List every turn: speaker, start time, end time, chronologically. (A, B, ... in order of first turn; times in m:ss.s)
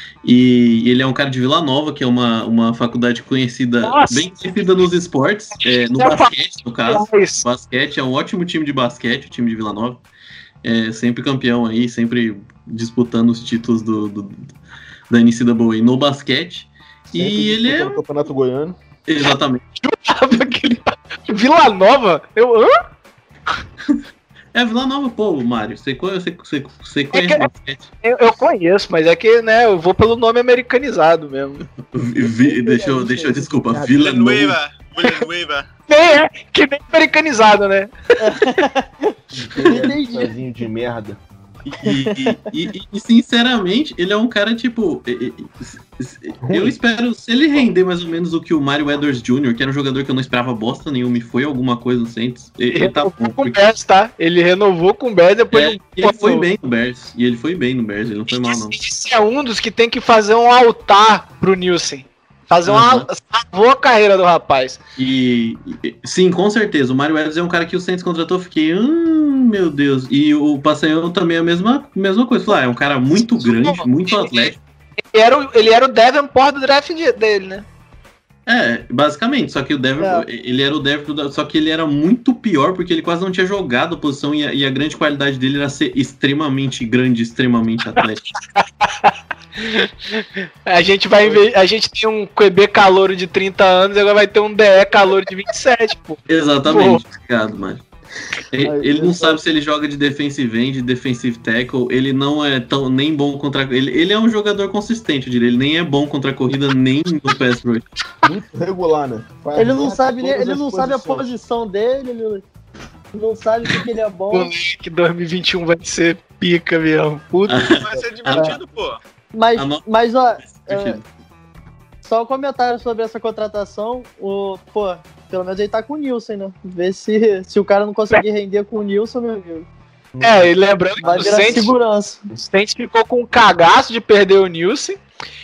0:00.2-0:10.0 A
0:03.8-0:04.2 B
0:05.6-0:07.4 B
0:10.6-0:14.5 A
0:15.1-0:18.0 A
0:17.1-0:18.8 C
0:19.1-0:19.6 A
0:19.8-0:22.8 B
0:24.5-0:27.9 A
0:27.1-0:27.5 B
0:28.0-0:31.7 B
0:31.9-0:34.6 A
0:32.4-0:33.4 D
0:33.6-0:34.0 C
0:34.0-0:35.7 E
0:35.9-0:38.5 B
0:38.2-0:40.3 D
0:39.3-0:41.2 C
0:41.6-0:53.6 A
0:41.8-0:42.7 D
0:46.4-0:46.8 C
0:52.7-0:56.5 B
0:55.5-0:58.8 A
0:58.3-1:04.8 B
1:02.7-1:03.1 A
1:05.0-1:14.6 A
1:13.4-1:14.5 B
1:15.1-1:17.7 B
1:18.5-1:28.3 A
1:20.0-1:20.2 D
1:28.6-1:37.0 B
1:36.3-1:37.8 A
1:38.5-1:47.8 A
1:38.6-1:39.4 C
1:48.2-1:51.3 C
1:49.6-1:52.4 D
1:53.1-1:54.5 D
1:54.3-1:57.5 B
1:57.5-1:58.6 A
1:57.7-1:59.0 E
1:59.3-2:01.0 D
1:59.6-1:59.9 A
2:00.4-2:01.0 A
2:02.0-2:09.7 D
2:10.1-2:11.7 C
2:10.2-2:11.7 B
2:11.0-2:12.2 D
2:12.4-2:15.0 B